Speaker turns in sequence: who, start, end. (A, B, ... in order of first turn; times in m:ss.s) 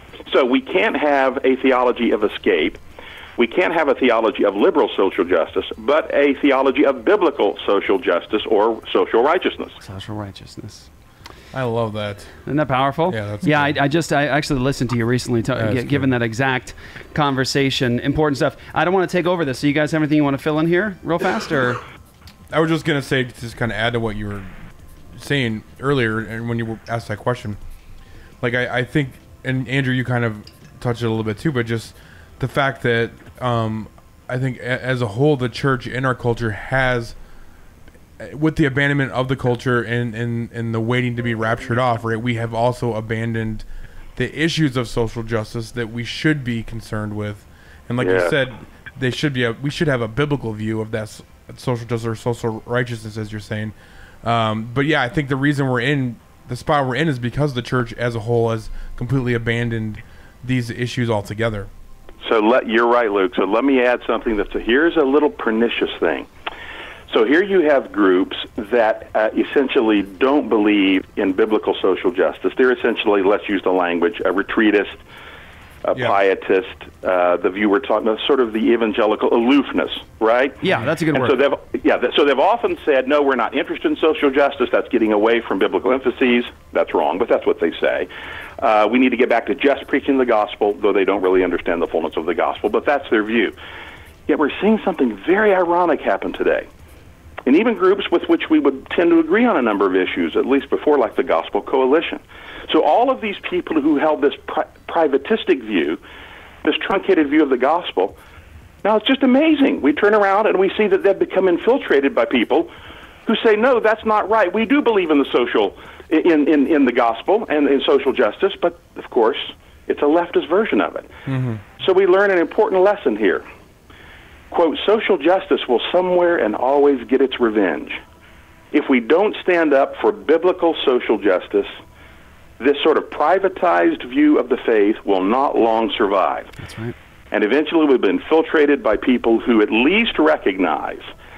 0:00.3-0:02.8 A
0:03.4-0:09.8 A
0:09.8-0:10.9 B
0:11.5-0:12.4 C
0:12.4-0:21.8 B
0:13.1-0:13.8 C
0:15.6-0:16.1 C
0:22.5-0:24.5 C
0:25.2-0:27.6 C
0:28.4-0:37.2 C
0:38.2-0:43.6 C
0:44.2-1:01.7 C
0:48.0-0:48.3 A
1:02.2-1:06.3 A
1:07.1-1:15.0 A
1:15.8-1:33.5 A
1:20.6-1:21.4 B
1:34.3-1:36.6 A
1:37.4-1:46.0 A
1:46.6-1:48.2 A
1:48.8-1:52.7 A
1:53.2-2:01.1 A
2:01.3-2:01.6 C
2:01.8-2:03.4 A
2:04.5-2:08.0 A
2:08.7-2:11.7 A
2:12.6-2:16.5 A
2:16.6-2:16.9 B
2:17.3-2:21.0 A